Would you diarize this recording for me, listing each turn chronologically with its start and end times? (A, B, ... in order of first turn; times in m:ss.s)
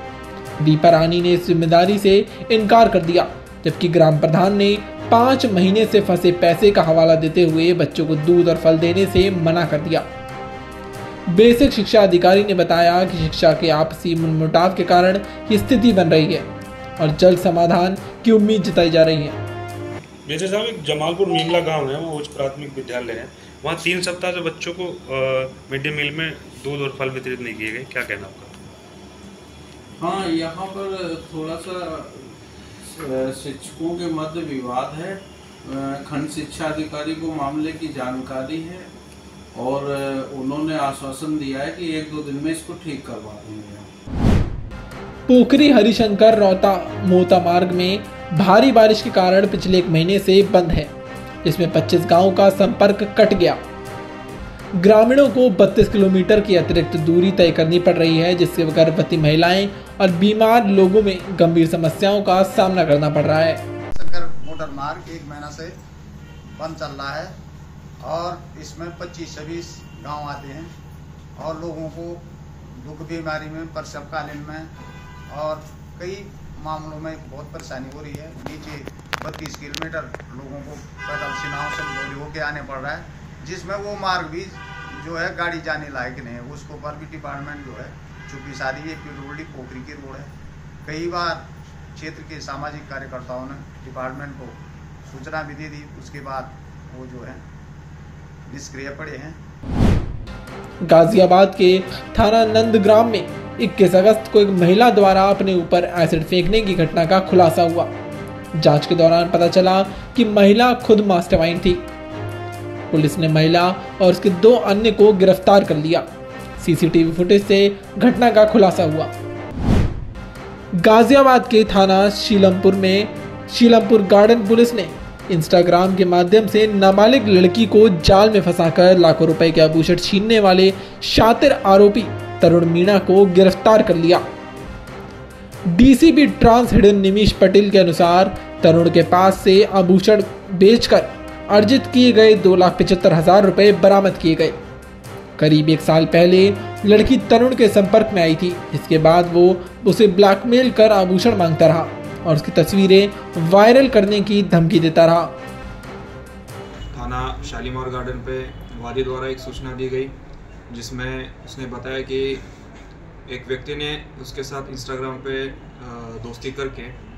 0:00.6-0:10.1 A
0:11.3-0:16.5 A
0:17.0-0:19.4 A
0:20.3-0:28.6 B
0:30.0-0:38.9 C
0:39.5-0:43.9 C
0:45.3-0:50.9 A
0:51.4-0:53.6 A
0:54.8-1:03.6 A
1:03.9-1:05.8 D
1:06.6-1:07.3 D
1:08.0-1:10.7 D
1:11.4-1:12.2 D
1:12.8-1:14.7 D
1:15.3-1:30.3 D
1:30.8-1:37.4 D
1:38.5-1:39.4 D
1:40.9-1:47.9 A
1:48.6-1:51.9 A
1:52.9-1:56.1 A
1:56.6-1:59.1 A
2:00.8-2:14.2 A
2:15.7-2:24.6 A
2:25.4-2:35.3 A
2:36.9-2:40.1 E
2:40.7-2:42.4 E
2:43.3-2:47.0 E